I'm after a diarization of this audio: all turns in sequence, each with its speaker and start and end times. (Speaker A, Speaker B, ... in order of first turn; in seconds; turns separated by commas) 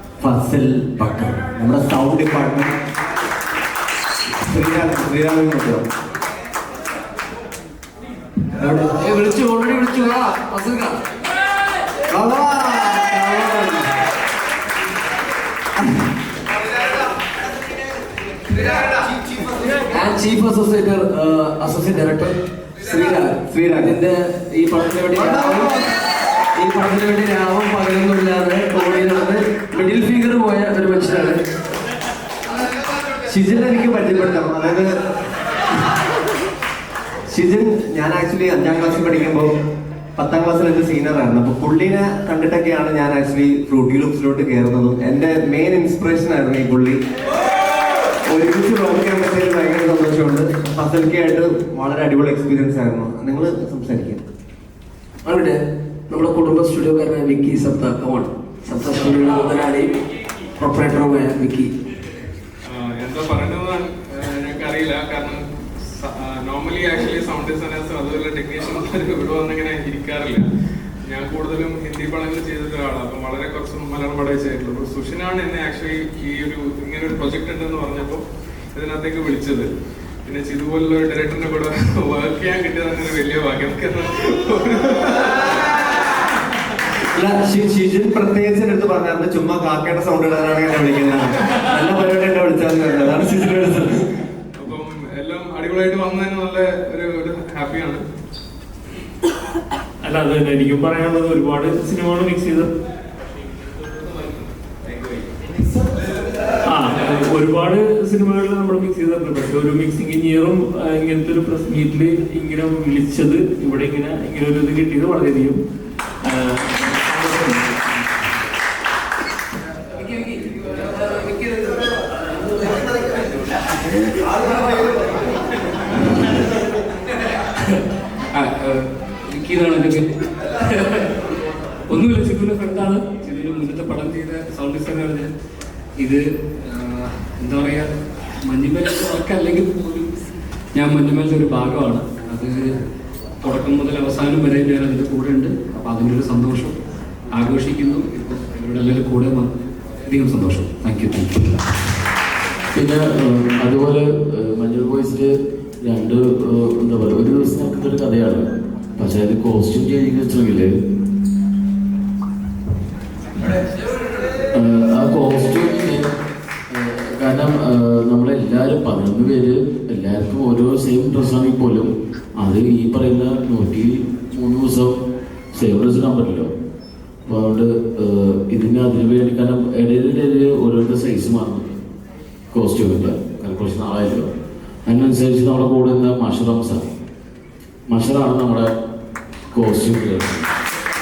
Speaker A: 0.2-2.8, Speaker A: 4.4-5.9, Speaker B: 8.6-11.0, Speaker A: 12.1-13.0, Speaker B: 13.0-13.8, Speaker B: 19.9-25.8, Speaker A: 23.5-23.9, Speaker B: 26.6-31.4, Speaker A: 33.3-34.9, Speaker A: 37.3-39.6, Speaker A: 40.2-47.0, Speaker A: 48.3-54.2, Speaker B: 55.2-55.6, Speaker B: 56.1-59.9, Speaker B: 60.6-61.7, Speaker C: 62.7-65.4, Speaker C: 66.0-70.5, Speaker C: 71.1-78.2, Speaker C: 78.8-79.7, Speaker C: 80.3-85.3, Speaker A: 87.1-94.1, Speaker C: 94.6-98.0, Speaker D: 100.0-102.7, Speaker D: 106.7-115.6, Speaker D: 116.2-117.8, Speaker E: 127.6-131.2, Speaker E: 131.9-135.3, Speaker E: 136.0-137.9, Speaker E: 138.4-140.1, Speaker E: 140.7-142.7, Speaker E: 143.4-146.8, Speaker E: 147.3-149.5, Speaker E: 150.1-151.6, Speaker F: 152.7-158.5, Speaker F: 159.0-160.7, Speaker F: 164.6-166.1, Speaker F: 166.7-174.9, Speaker F: 175.5-176.5, Speaker F: 177.3-181.7, Speaker F: 182.5-184.3, Speaker F: 184.9-186.9, Speaker F: 187.9-188.7, Speaker F: 189.5-190.5